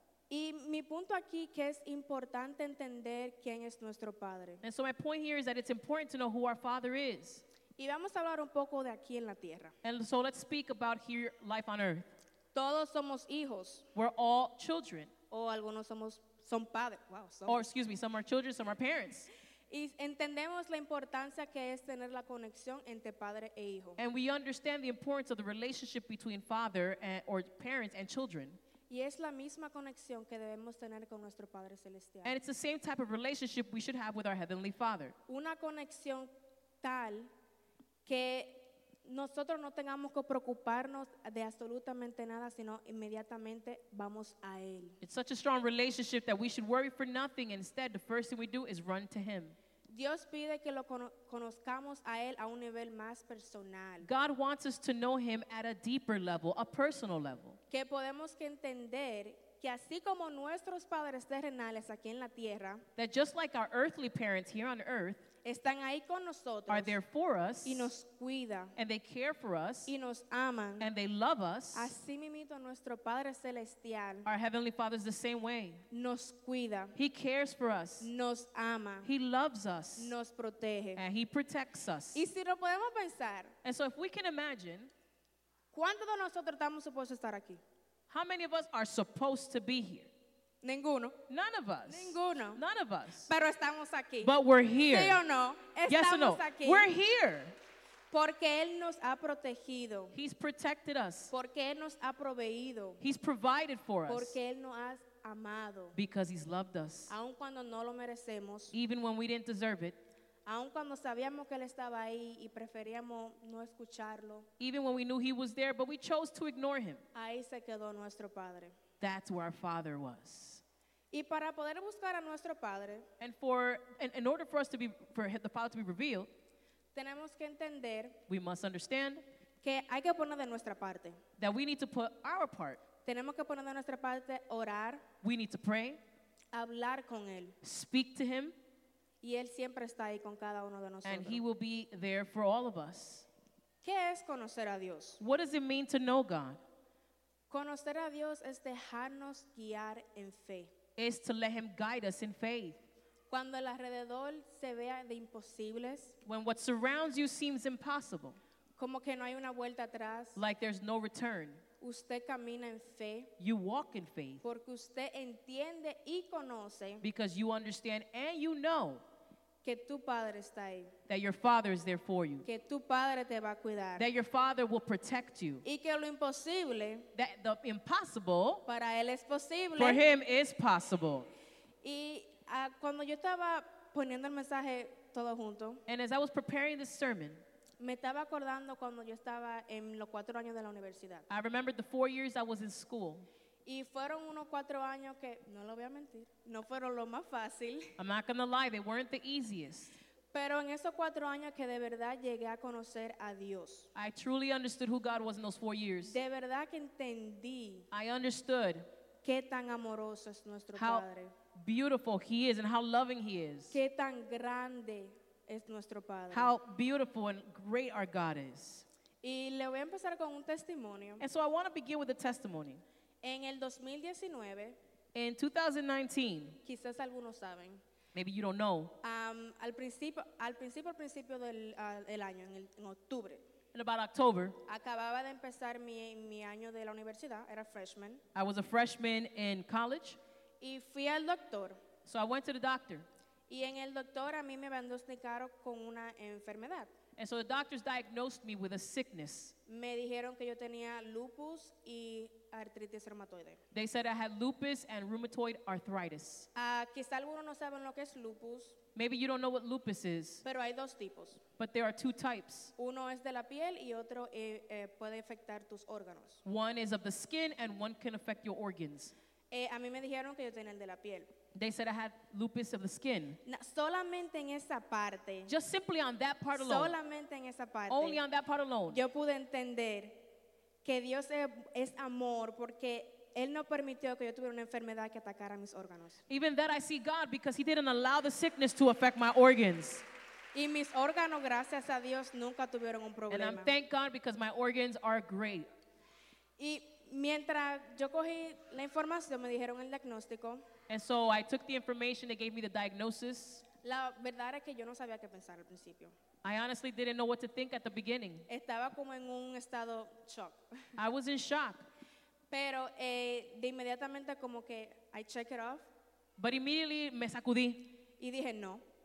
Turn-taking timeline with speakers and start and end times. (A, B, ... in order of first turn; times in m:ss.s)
0:00.3-0:04.6 A
0:04.6-0:07.4 B
0:07.8-0:09.7 A
0:09.8-0:12.1 B
0:12.5-0:13.9 A
0:13.9-0:15.1 B
0:15.3-0:17.7 A
0:17.5-0:19.3 B
0:19.7-0:24.0 A
0:24.0-0:28.6 B
0:28.9-0:32.4 A
0:32.2-0:35.2 B
0:35.3-0:36.3 A
0:36.8-0:37.3 A
0:38.0-0:45.0 A
0:45.0-0:49.6 B
0:49.9-0:54.1 A
0:54.0-0:57.6 B
0:57.7-1:02.8 A
1:03.0-1:05.2 B
1:05.4-1:07.0 A
1:06.7-1:07.9 B
1:07.6-1:08.7 A
1:08.8-1:09.9 B
1:09.9-1:10.9 A
1:10.8-1:11.9 B
1:11.7-1:14.3 A
1:14.2-1:15.8 B
1:15.9-1:17.0 A
1:17.0-1:18.1 B
1:18.0-1:19.1 A
1:19.0-1:20.1 B
1:20.0-1:21.0 A
1:21.0-1:22.2 B
1:22.1-1:23.5 A
1:23.6-1:24.9 B
1:25.7-1:27.6 A
1:28.1-1:30.1 B
1:30.6-1:31.2 A
1:31.3-1:33.3 B
1:31.9-1:32.6 A
1:33.3-1:34.3 A
1:34.2-1:35.2 B
1:34.9-1:36.9 A
1:35.9-1:37.5 B
1:38.1-1:40.2 A
1:40.1-1:41.3 B
1:41.3-1:43.0 A
1:43.0-1:44.4 B
1:44.1-1:46.0 A
1:46.0-1:47.1 B
1:47.1-1:48.7 A
1:48.7-1:50.0 B
1:50.4-1:54.5 A
1:54.6-1:57.0 B
1:57.1-1:58.7 A
1:59.0-2:00.6 B
2:01.1-2:03.1 A
2:03.2-2:06.3 B
2:06.9-2:08.2 A
2:08.3-2:09.2 B
2:09.6-2:11.2 A
2:11.4-2:12.8 B
2:13.0-2:15.0 A
2:15.2-2:16.0 B
2:16.5-2:17.6 A
2:17.6-2:18.5 B
2:19.2-2:21.4 A
2:21.0-2:23.3 B
2:23.8-2:25.2 A
2:25.2-2:26.6 B
2:27.5-2:30.7 A
2:31.0-2:32.8 B
2:33.3-2:36.2 A
2:36.2-2:38.4 B
2:38.8-2:40.4 A
2:40.4-2:41.6 B
2:41.8-2:43.3 A
2:43.4-2:44.4 B
2:44.4-2:47.0 A
2:47.0-2:49.0 B
2:49.6-2:50.9 A
2:51.1-2:52.4 B
2:52.4-2:54.0 A
2:54.0-2:55.6 B
2:55.6-2:57.1 A
2:57.1-2:58.6 B
2:58.7-3:00.0 A
2:59.7-3:01.3 B
3:01.8-3:05.8 A
3:05.9-3:07.4 B
3:07.8-3:11.3 A
3:11.3-3:13.3 B
3:13.6-3:17.9 A
3:18.0-3:20.0 B
3:20.3-3:23.9 A
3:23.9-3:26.2 B
3:26.0-3:27.9 A
3:27.9-3:28.9 B
3:29.2-3:31.3 A
3:30.8-3:33.8 B
3:33.7-3:36.5 A
3:36.3-3:38.8 B
3:39.2-3:41.2 A
3:41.2-3:42.8 B
3:43.2-3:44.8 A
3:45.1-3:46.6 B
3:46.6-3:47.8 A
3:48.1-3:48.9 B
3:49.0-3:53.4 A
3:53.7-3:54.6 B
3:54.7-3:58.2 A
3:58.3-4:00.2 B
4:00.6-4:01.8 A
4:02.0-4:03.1 B
4:03.5-4:06.9 A
4:07.2-4:09.5 B
4:09.7-4:13.6 A
4:13.7-4:16.5 B
4:16.5-4:18.8 A
4:18.9-4:20.4 B
4:20.4-4:21.4 A
4:21.6-4:22.7 B
4:22.8-4:26.4 A
4:26.4-4:29.1 B
4:29.5-4:31.3 A
4:31.5-4:33.4 B
4:33.4-4:35.5 A
4:35.5-4:37.0 B
4:36.5-4:38.2 A
4:37.9-4:39.0 B
4:38.9-4:40.2 A
4:40.8-4:46.2 A
4:46.3-4:50.0 B
4:50.5-4:53.7 A
4:53.3-4:55.7 B
4:56.6-5:00.6 A
5:00.9-5:03.6 B
5:03.8-5:06.1 A
5:06.4-5:08.4 B
5:08.5-5:10.6 A
5:11.0-5:11.8 B
5:12.5-5:15.9 A
5:16.4-5:17.9 B
5:18.2-5:18.8 A